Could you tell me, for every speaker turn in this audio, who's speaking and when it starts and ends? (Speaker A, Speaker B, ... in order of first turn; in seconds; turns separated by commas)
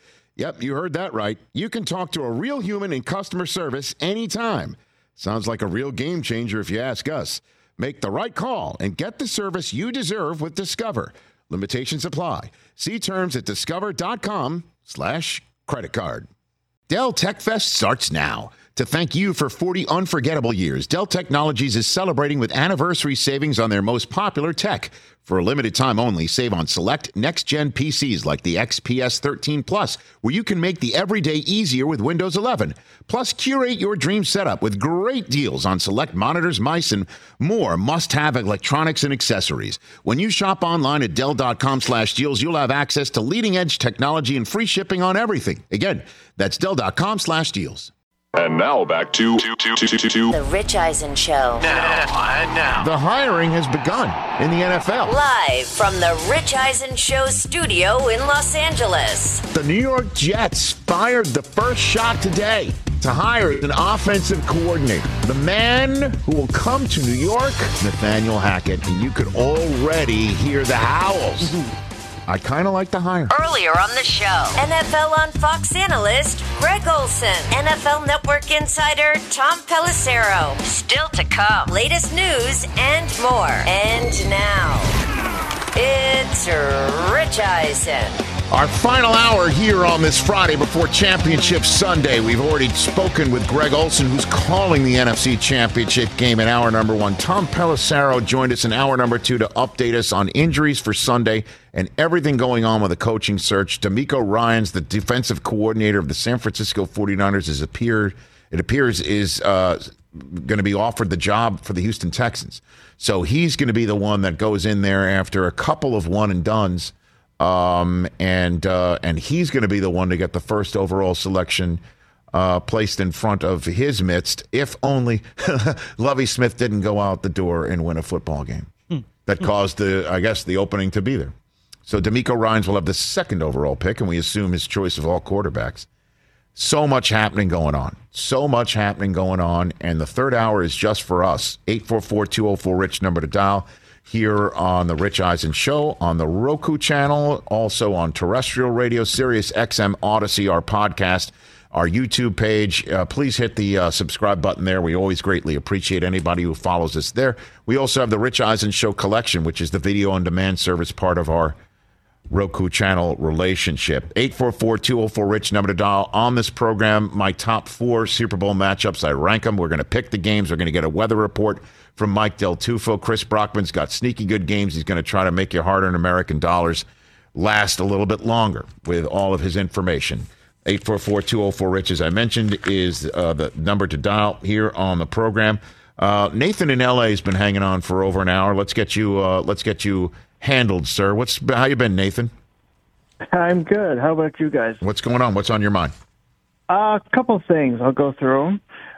Speaker A: 0.4-16.3, Speaker A: 16.9-47.9, Speaker B: 48.3-50.3, Speaker C: 50.3-52.1, Speaker A: 52.7-55.1, Speaker C: 55.0-59.4, Speaker A: 59.5-71.6, Speaker A: 72.3-73.3, Speaker C: 73.3-85.0, Speaker C: 85.7-88.2, Speaker A: 88.5-121.8, Speaker A: 122.3-128.7, Speaker A: 129.2-131.3, Speaker A: 131.9-135.9, Speaker A: 136.5-161.6, Speaker A: 162.3-192.3, Speaker D: 193.3-194.8, Speaker A: 194.8-195.9, Speaker D: 196.7-198.6